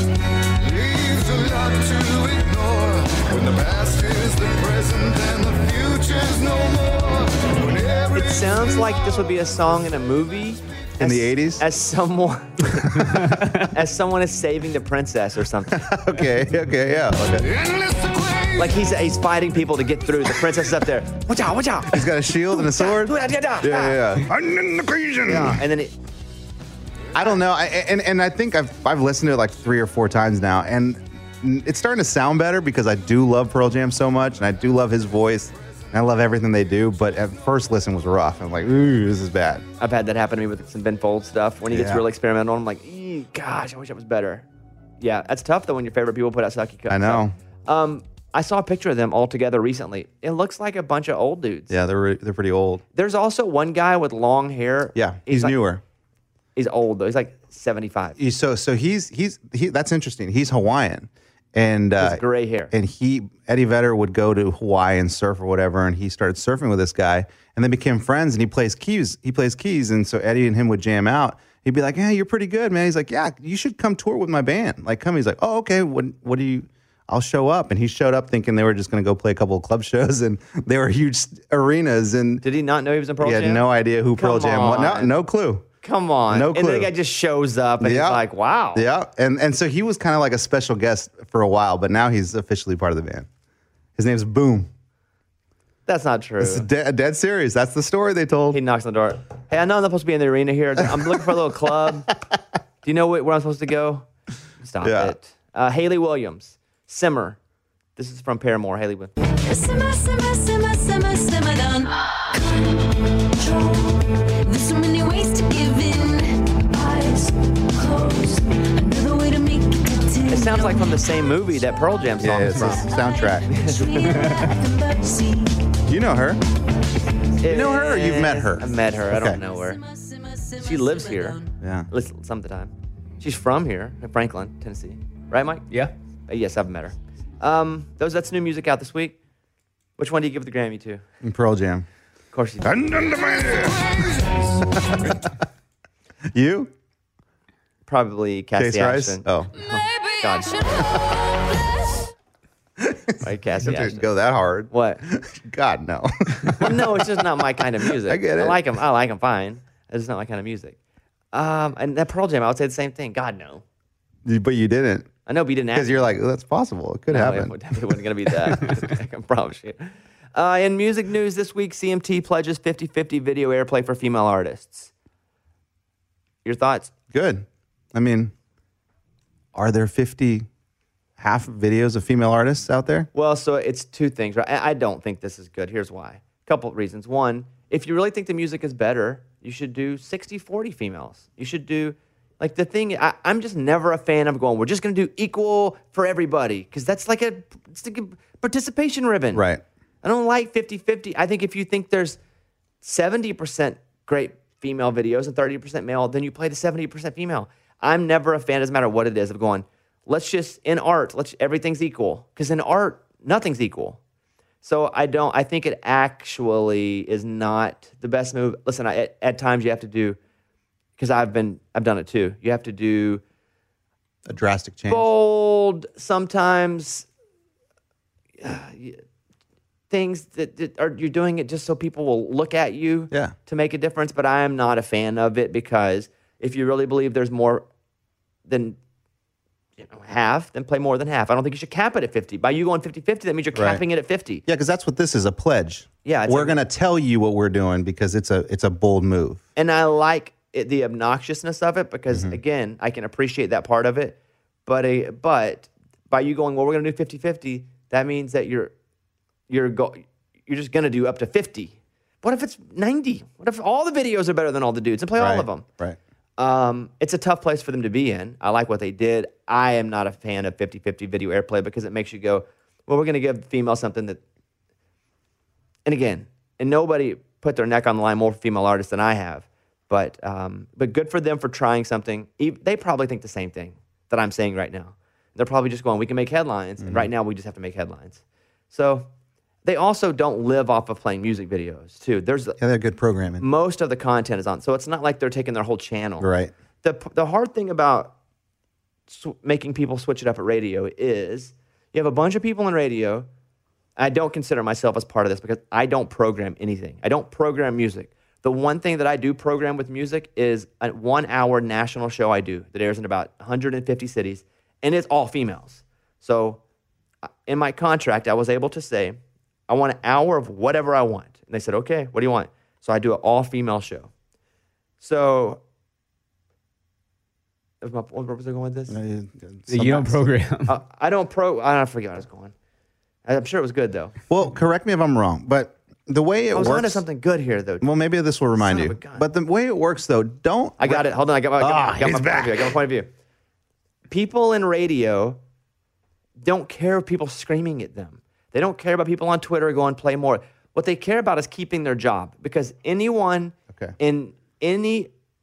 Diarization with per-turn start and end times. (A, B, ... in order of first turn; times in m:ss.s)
0:00.6-0:09.1 A
0:08.1-0:15.8 B
0:11.0-0:11.6 C
0:12.9-0:13.5 D
0:15.7-0:17.5 C
0:17.4-0:18.7 A
0:18.6-0:24.0 B
0:21.9-0:25.6 C
0:25.3-0:26.0 B
0:27.1-0:39.6 C
0:39.8-0:44.5 B
0:41.7-0:42.0 C
0:45.0-0:51.7 B
0:46.9-0:47.3 C
0:51.7-0:52.8 C
0:52.9-0:55.6 B
0:55.0-0:55.8 C
0:56.6-0:58.2 B
0:58.2-1:22.4 C
1:02.0-1:02.7 B
1:22.4-1:23.6 B
1:23.2-1:25.7 C
1:24.2-1:25.2 B
1:25.8-1:28.8 B
1:26.3-1:26.9 C
1:27.8-1:28.2 C
1:28.7-1:33.3 C
1:34.0-1:34.7 C
1:35.9-1:36.7 B
1:36.4-1:38.6 C
1:38.5-1:42.1 B
1:41.0-1:41.4 C
1:42.8-1:44.1 B
1:44.6-1:47.4 B
1:44.8-1:45.2 C
1:48.0-1:49.1 B
1:49.4-2:01.0 E
2:00.3-2:02.9 B
2:02.2-2:03.5 C
2:02.9-2:05.7 E
2:03.5-2:04.2 B
2:04.2-2:04.5 D
2:05.9-2:06.4 C
2:07.4-2:09.8 B
2:07.5-2:09.4 C
2:09.5-2:11.5 E
2:10.6-2:15.6 B
2:11.6-2:11.9 C
2:16.3-2:19.2 B
2:20.0-2:21.0 B
2:21.2-2:21.9 C
2:22.3-2:23.2 B
2:22.6-2:24.0 C
2:24.8-2:25.3 C
2:26.3-2:26.7 C
2:27.9-2:30.8 B
2:28.6-2:29.5 C
2:32.8-2:37.2 C
2:33.2-2:34.1 B
2:34.7-2:35.0 B
2:36.6-2:40.8 B
2:37.8-2:38.6 C
2:41.3-2:43.6 B
2:44.2-2:45.1 C
2:45.3-2:46.1 B
2:45.7-2:47.6 C
2:47.1-2:54.9 B
2:56.4-2:56.9 B
2:57.1-2:58.3 C
2:59.6-3:00.5 C
3:01.2-3:03.1 C
3:03.1-3:19.4 B
3:19.3-3:19.6 C
3:20.0-3:22.2 B
3:22.8-3:34.0 B
3:34.6-3:40.2 B
3:41.0-3:43.2 B
3:44.3-3:45.1 C
3:44.9-3:47.1 B
3:48.4-3:49.0 B
3:49.9-3:57.7 B
3:58.5-3:58.8 B
3:59.8-4:04.4 B
4:03.6-4:03.8 C
4:04.5-4:09.4 C
4:06.0-4:06.6 B
4:09.6-4:18.7 B
4:12.1-4:12.4 C
4:19.5-4:25.6 B
4:25.2-4:26.0 C
4:26.4-4:34.2 B
4:35.9-4:49.1 B
4:46.8-4:47.1 C
4:49.6-4:52.6 B
4:52.6-4:53.4 C
4:53.4-4:56.3 B
4:56.2-4:56.5 C
4:56.8-4:58.2 B
4:59.1-5:03.3 B
5:04.0-5:16.6 B
5:17.5-5:19.2 B
5:19.7-5:24.1 B
5:25.0-5:25.6 B
5:27.8-5:29.0 B
5:28.9-5:30.2 C
5:29.7-5:30.7 D
5:30.7-5:32.5 B
5:33.3-5:34.2 B
5:34.3-5:37.0 C
5:36.5-5:37.9 B
5:37.8-5:41.1 C
5:38.6-5:39.3 B
5:40.8-5:43.1 B
5:41.6-5:42.7 C
5:44.1-5:45.4 B
5:46.4-5:55.1 B
5:53.7-5:54.0 C